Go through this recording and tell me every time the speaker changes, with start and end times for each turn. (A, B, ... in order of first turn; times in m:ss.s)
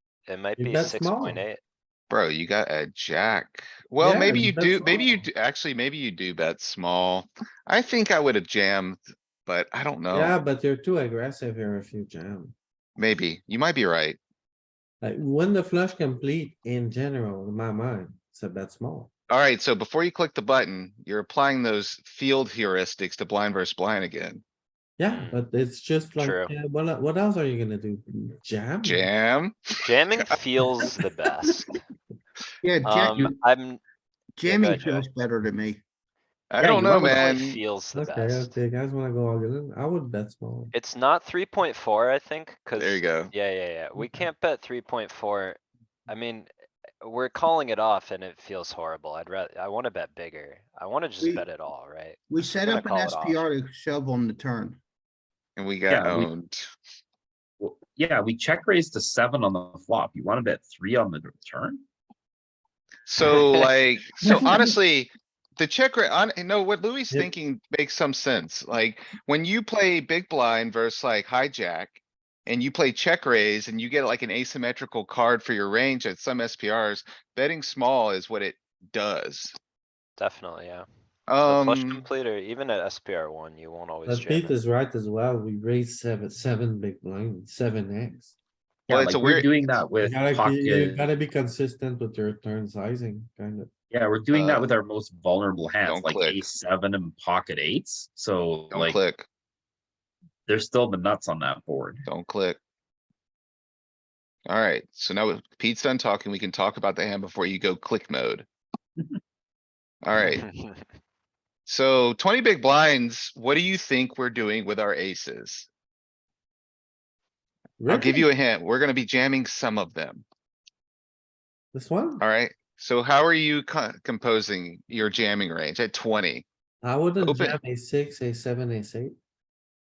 0:00.3-0:01.6 A
0:00.6-0:01.4 B
0:02.1-0:10.4 C
0:04.0-0:05.2 B
0:10.1-0:12.5 B
0:13.0-0:14.2 C
0:15.0-0:19.1 B
0:19.3-0:24.4 C
0:25.0-0:29.1 B
0:25.1-0:25.4 A
0:26.2-0:26.5 A
0:28.8-0:30.3 C
0:29.8-0:31.8 A
0:32.6-0:33.3 D
0:32.8-0:33.8 A
0:34.4-0:35.8 D
0:34.4-0:35.1 A
0:36.5-0:37.6 C
0:36.6-0:37.1 B
0:37.0-0:38.6 A
0:37.9-0:40.7 B
0:40.7-0:46.5 A
0:42.7-0:43.3 C
0:44.0-0:44.2 B
0:47.0-0:53.5 A
0:52.3-0:54.8 D
0:55.6-0:56.7 C
0:55.9-0:56.3 E
0:57.6-1:01.8 E
1:03.1-1:19.5 C
1:20.2-1:20.8 A
1:21.3-1:22.0 C
1:21.4-1:24.6 A
1:24.1-1:28.3 B
1:28.9-1:31.1 E
1:28.9-1:29.5 C
1:30.0-1:33.7 B
1:33.9-1:39.0 E
1:34.3-1:34.7 C
1:35.8-1:36.4 C
1:38.7-1:39.3 C
1:40.5-1:42.0 E
1:42.1-1:42.6 C
1:44.5-1:48.5 C
1:50.0-1:50.4 C
1:50.2-1:50.8 A
1:51.7-1:55.7 C
1:57.8-1:58.2 B
1:57.9-2:00.2 C
2:01.7-2:02.2 B
2:02.2-2:06.4 C
2:06.8-2:09.1 B
2:07.2-2:07.6 C